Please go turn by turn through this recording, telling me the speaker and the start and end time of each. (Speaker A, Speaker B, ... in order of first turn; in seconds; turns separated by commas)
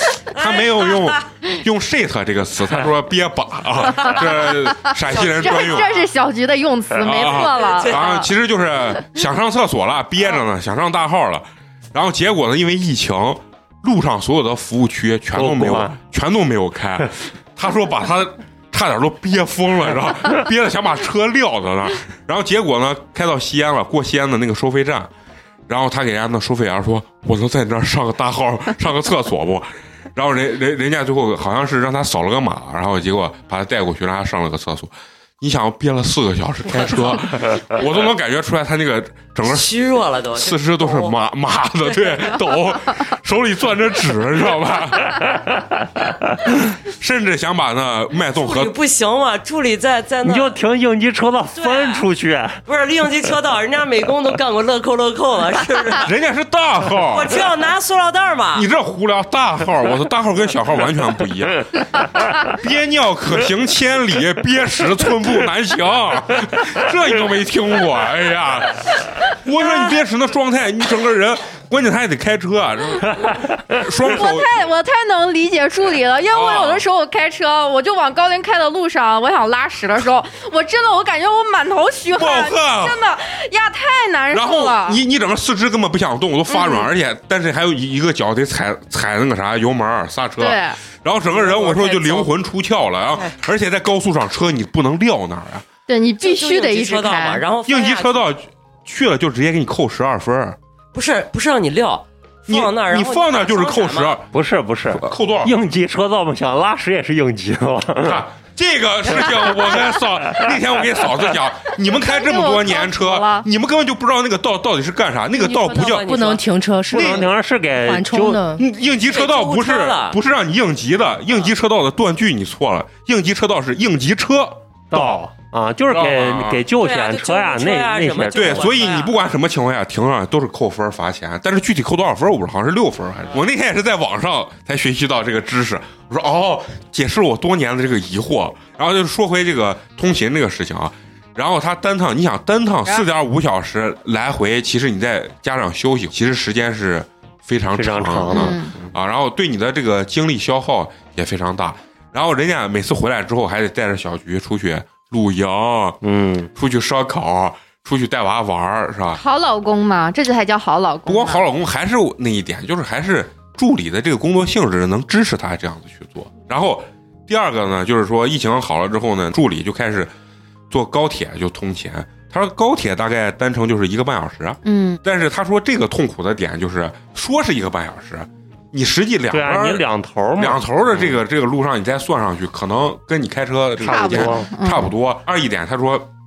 Speaker A: 0.3-5.9, Speaker B: 0.3-1.2, Speaker C: 4.0-8.3, Speaker B: 5.1-6.0, Speaker A: 7.0-25.1, Speaker B: 7.3-8.3, Speaker D: 15.3-16.0, Speaker A: 25.7-39.7, Speaker B: 39.5-41.2, Speaker A: 40.3-45.3, Speaker D: 45.2-45.7, Speaker A: 46.8-48.8, Speaker B: 48.4-50.6, Speaker D: 50.2-52.6, Speaker B: 51.6-52.0, Speaker B: 52.7-56.1, Speaker A: 56.0-57.4, Speaker B: 57.1-58.7, Speaker A: 58.5-74.5, Speaker C: 74.0-85.0, Speaker A: 76.3-76.8, Speaker A: 82.1-83.0, Speaker A: 84.3-95.7, Speaker C: 86.5-86.9, Speaker C: 90.4-90.8, Speaker B: 91.3-92.3, Speaker C: 95.9-97.4, Speaker B: 96.2-98.2, Speaker A: 97.7-100.6, Speaker B: 100.9-104.2, Speaker A: 102.5-104.3, Speaker D: 104.3-108.2, Speaker A: 105.0-105.5, Speaker A: 108.0-116.1, Speaker D: 110.3-110.5, Speaker C: 111.8-113.5, Speaker B: 115.4-116.4, Speaker E: 115.5-118.7, Speaker D: 116.9-118.4, Speaker A: 116.9-117.3, Speaker A: 118.6-125.2, Speaker B: 119.0-120.2, Speaker D: 124.9-128.7, Speaker A: 125.9-126.6, Speaker B: 126.8-129.1, Speaker A: 128.3-156.0, Speaker D: 147.7-148.9, Speaker C: 148.3-148.7, Speaker D: 156.0-156.5, Speaker A: 156.5-159.2, Speaker C: 159.2-161.4, Speaker A: 161.1-170.1, Speaker A: 170.7-179.8, Speaker C: 174.7-175.0, Speaker D: 179.3-181.1, Speaker A: 180.4-186.1, Speaker D: 183.8-184.5, Speaker C: 183.9-184.9